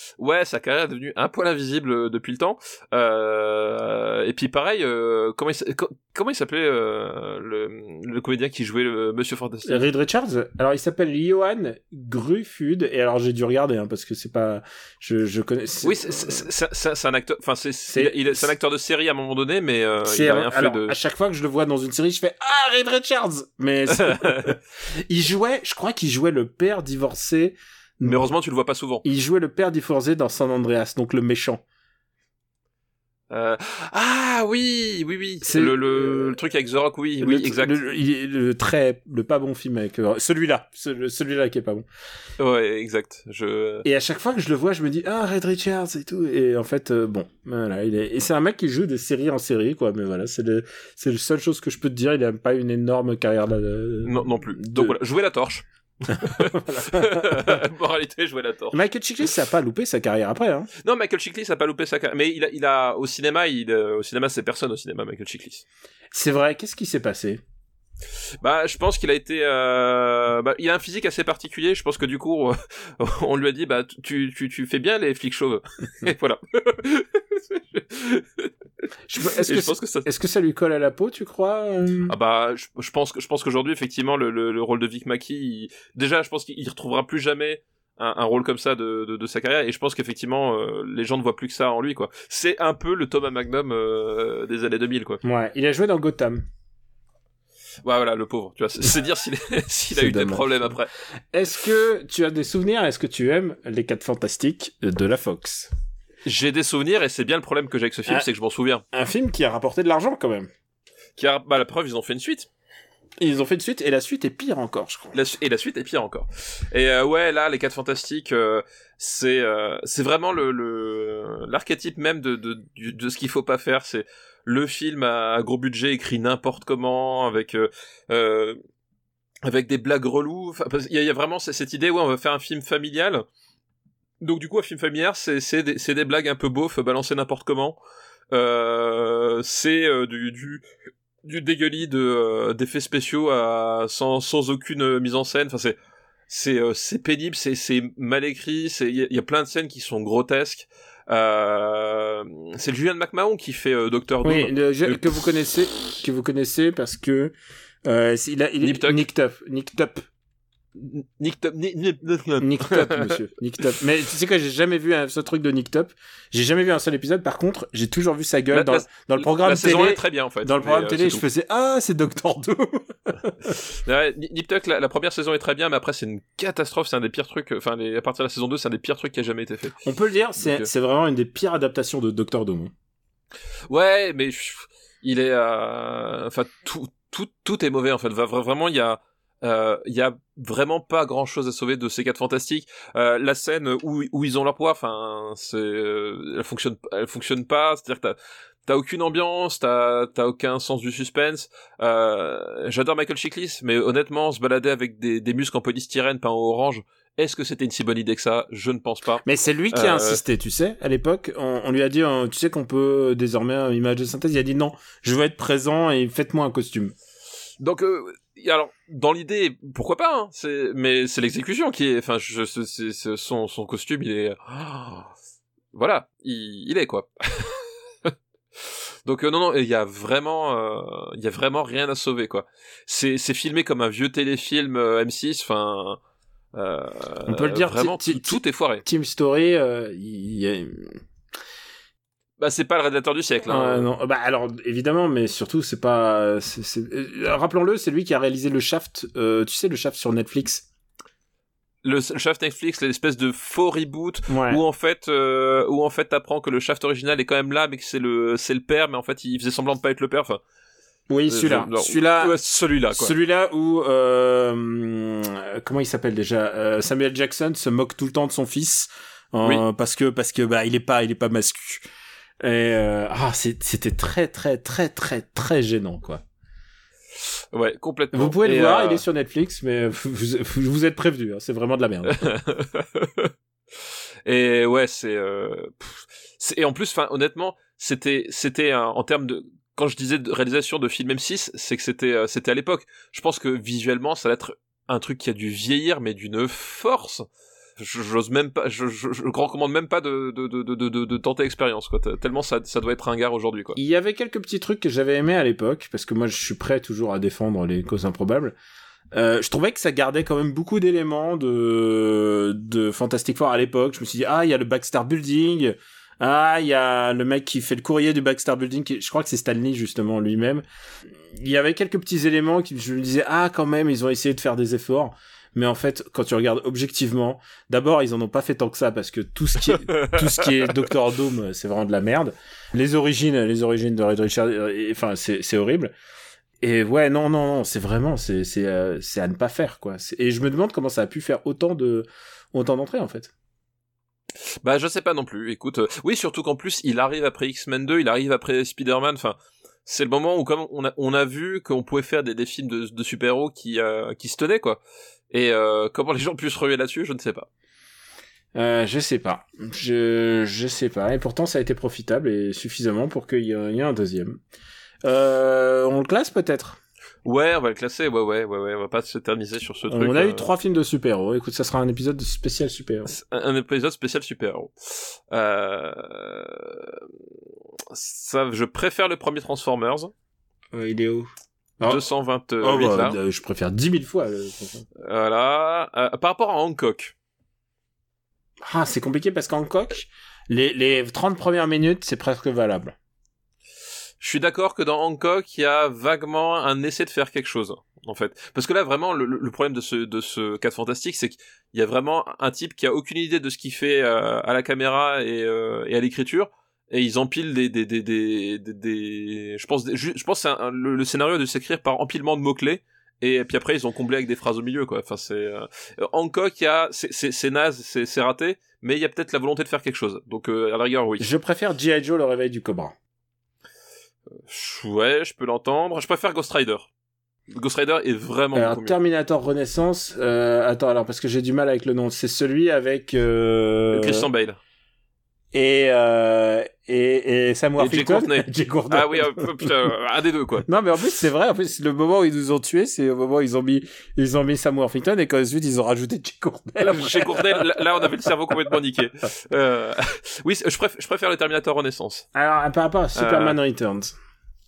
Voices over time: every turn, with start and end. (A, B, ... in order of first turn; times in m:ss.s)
0:00.2-0:09.8 A
0:09.6-0:16.5 B
0:15.8-0:21.0 A
0:17.9-0:18.5 B
0:20.0-0:28.2 B
0:24.0-0:24.5 A
0:28.0-0:29.0 A
0:29.0-0:31.6 B
0:33.3-0:37.8 A
0:35.4-0:36.4 B
0:37.2-0:41.9 B
0:42.4-0:43.9 A
0:43.8-0:55.0 B
0:54.0-0:58.8 A
0:56.1-0:57.6 B
0:58.7-1:00.7 B
1:00.8-1:05.6 A
1:06.1-1:07.4 B
1:08.4-1:18.5 A
1:19.1-1:22.2 B
1:19.4-1:20.1 A
1:22.1-1:35.2 A
1:35.2-1:36.4 B
1:37.8-1:40.9 A
1:39.9-1:40.7 B
1:41.3-1:45.7 B
1:46.2-1:48.8 A
1:48.9-1:50.5 B
1:51.2-1:52.5 A
1:53.2-1:55.2 B
1:55.1-2:08.6 A
2:09.4-2:13.2 A
2:14.2-2:17.8 A
2:18.3-2:20.6 A
2:21.2-2:25.8 A
2:26.3-2:35.2 A
2:34.2-2:40.0 B
2:38.6-2:39.0 A
2:40.8-2:43.2 A
2:42.4-2:53.6 B
2:48.5-2:51.2 A
2:53.7-2:59.8 A
2:59.8-3:02.7 B
3:00.4-3:00.7 A
3:03.7-3:18.2 A
3:18.7-3:30.2 A
3:29.2-3:37.0 B
3:37.6-3:45.1 A
3:45.7-3:48.1 A
3:49.0-3:56.0 A
3:56.5-3:58.8 A
3:57.3-4:01.0 B
4:02.4-4:03.9 A
4:03.5-4:10.7 B
4:11.8-4:20.4 A
4:14.3-4:14.6 B
4:21.1-4:22.4 B
4:21.3-4:23.1 A
4:22.9-4:31.9 B
4:32.4-4:36.2 B
4:37.5-4:39.0 A
4:38.1-4:42.3 B
4:42.1-4:43.3 A
4:44.3-4:57.3 A
4:57.8-5:03.8 A
5:03.8-5:08.6 B
5:09.1-5:20.6 B
5:21.3-5:35.9 B
5:29.7-5:30.9 A
5:36.6-5:43.3 B
5:44.6-5:54.8 A
5:55.3-5:57.5 A
5:58.6-6:04.4 B
6:05.0-6:06.8 B
6:07.2-6:10.5 A
6:09.9-6:13.1 B
6:13.1-6:17.0 A
6:17.9-6:20.1 A
6:20.7-6:22.0 B
6:21.8-6:23.2 A
6:22.6-6:24.8 B
6:25.0-6:27.1 A
6:28.6-6:33.0 B
6:34.2-7:01.3 A
7:01.2-7:03.0 B
7:04.3-7:06.9 A
7:07.5-7:09.0 A
7:08.5-7:14.3 B
7:13.9-7:14.6 A
7:15.5-7:19.7 B
7:17.8-7:20.7 A
7:20.7-7:28.1 B
7:26.8-7:32.3 A
7:32.4-7:34.2 B
7:33.2-7:33.6 A